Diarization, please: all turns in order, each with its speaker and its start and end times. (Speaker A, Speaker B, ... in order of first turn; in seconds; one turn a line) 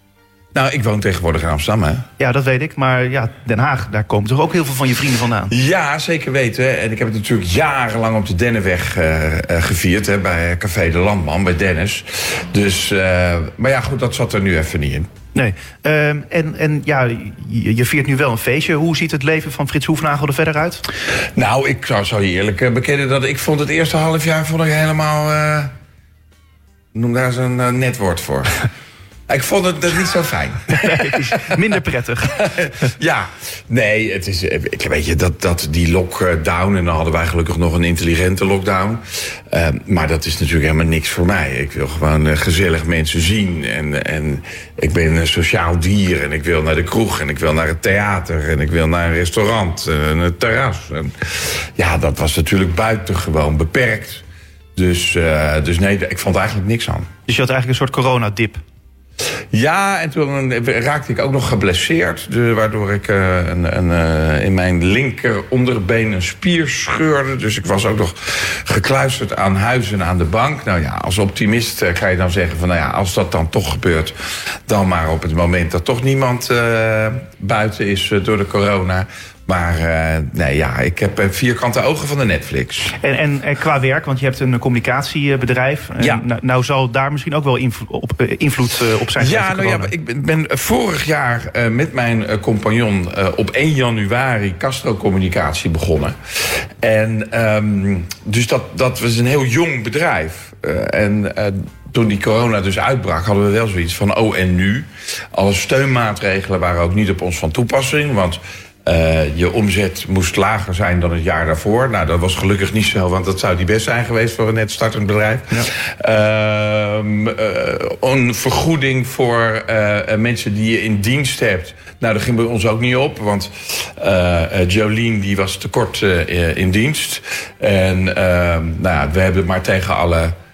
Speaker A: 0.5-2.1
Speaker B: 2.2-5.5
Speaker A: 5.5-15.1
Speaker B: 15.3-20.8
Speaker A: 21.3-25.7
Speaker A: 26.9-28.6
Speaker A: 29.3-31.5
Speaker B: 30.8-32.4
Speaker A: 32.3-54.2
Speaker A: 54.8-57.1
Speaker B: 57.3-58.6
Speaker A: 59.5-74.1
Speaker A: 74.7-82.9
Speaker B: 83.0-89.9
Speaker A: 89.2-96.2
Speaker A: 96.8-130.3